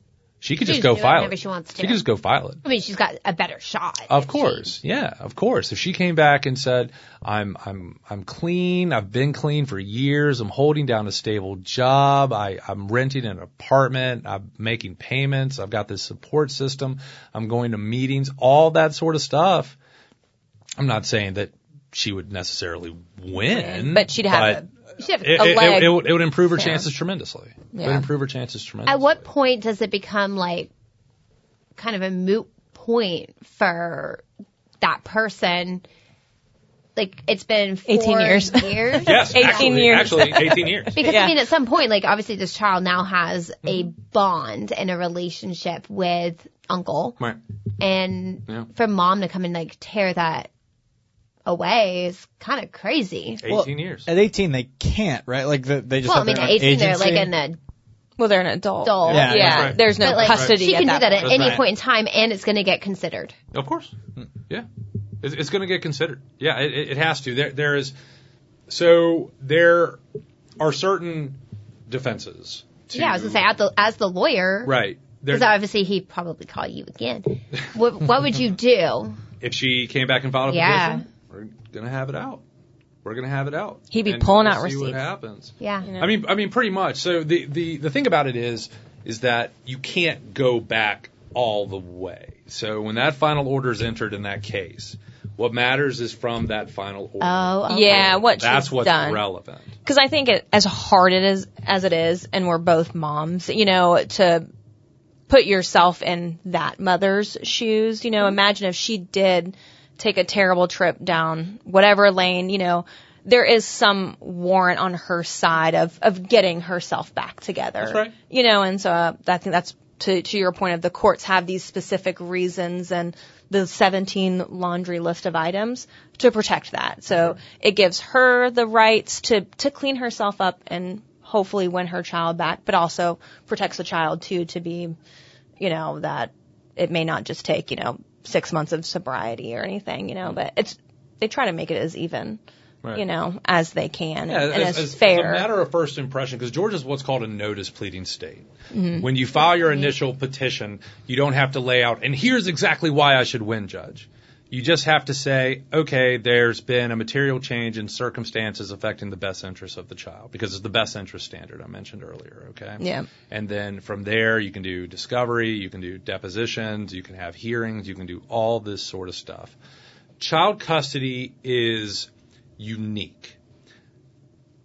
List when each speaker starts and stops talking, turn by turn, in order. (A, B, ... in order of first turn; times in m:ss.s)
0:00.4-0:02.6 A
0:00.6-0:02.0 B
0:02.6-0:04.7 B
0:04.1-0:19.8 A
0:20.8-0:24.6 A
0:23.5-0:24.7 C
0:25.0-0:25.7 B
0:25.2-0:29.2 A
0:25.3-0:26.0 C
0:27.7-0:28.1 C
0:28.9-0:30.7 B
0:31.8-0:34.2 B
0:34.8-0:35.8 B
0:37.0-0:40.4 B
0:37.9-0:41.4 C
0:39.0-0:41.0 A
0:41.0-0:47.2 B
0:47.8-0:50.5 B
0:51.5-0:53.4 B
0:53.4-0:54.1 A
0:53.5-0:57.3 D
0:56.0-0:57.6 B
0:58.2-1:01.6 C
0:58.8-1:03.4 B
0:59.1-0:59.8 D
0:59.2-1:00.6 A
1:01.2-1:01.6 A
1:03.5-1:04.0 A
1:05.2-1:07.9 A
1:08.7-1:10.0 A
1:10.6-1:13.5 A
1:12.9-1:14.8 B
1:14.6-1:15.6 A
1:15.3-1:19.2 B
1:19.4-1:22.4 A
1:20.5-1:21.0 B
1:23.0-1:39.7 A
1:23.9-1:25.0 C
1:25.6-1:25.9 B
1:25.8-1:26.1 C
1:37.2-1:38.2 B
1:37.7-1:39.2 C
1:39.8-1:44.5 C
1:45.3-2:15.0 C
1:57.8-1:58.1 A
2:15.6-2:22.4 C
2:22.9-2:25.5 C
2:24.3-2:49.6 A
2:28.7-2:29.1 C
2:42.8-2:43.1 C
2:50.2-2:53.4 A